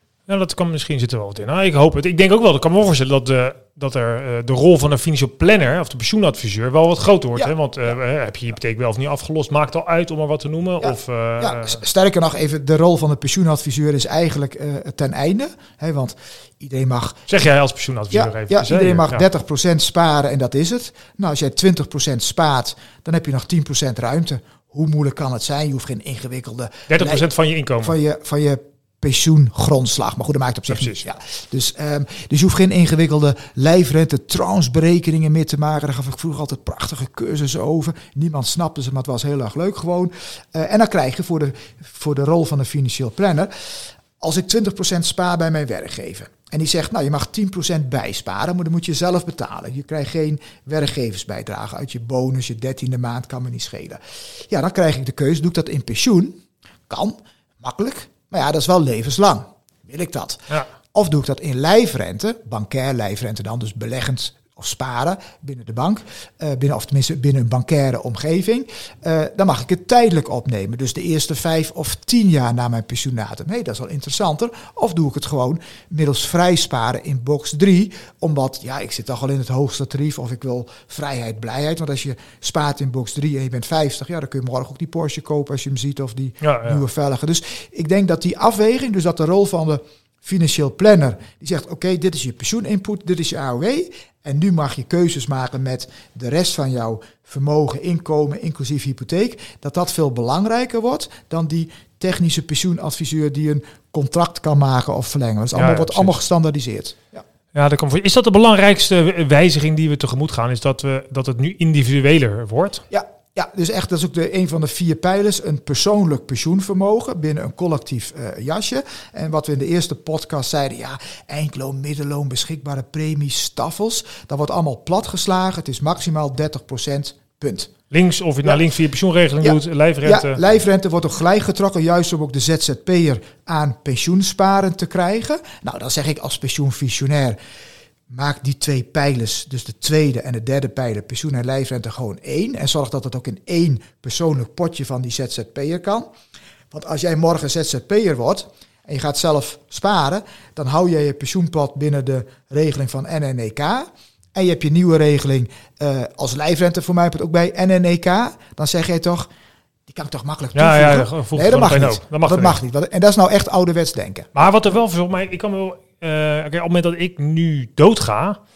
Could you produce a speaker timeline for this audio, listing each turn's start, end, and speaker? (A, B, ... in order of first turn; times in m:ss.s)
0:00.3-0:11.8 A
0:10.8-0:17.2 B
0:17.3-0:19.2 A
0:18.1-0:27.2 B
0:26.9-0:28.0 A
0:27.8-0:43.5 B
0:30.7-0:31.0 A
0:44.2-1:47.2 B
1:26.4-1:26.8 A
1:45.5-1:46.2 A
1:47.5-1:52.8 A
1:52.9-2:07.7 B
2:07.9-2:10.4 A
2:09.4-2:17.4 B
2:18.1-2:26.1 B
2:26.7-2:39.3 B
2:39.9-2:44.3 B
2:40.5-2:42.6 A
2:44.3-2:48.4 A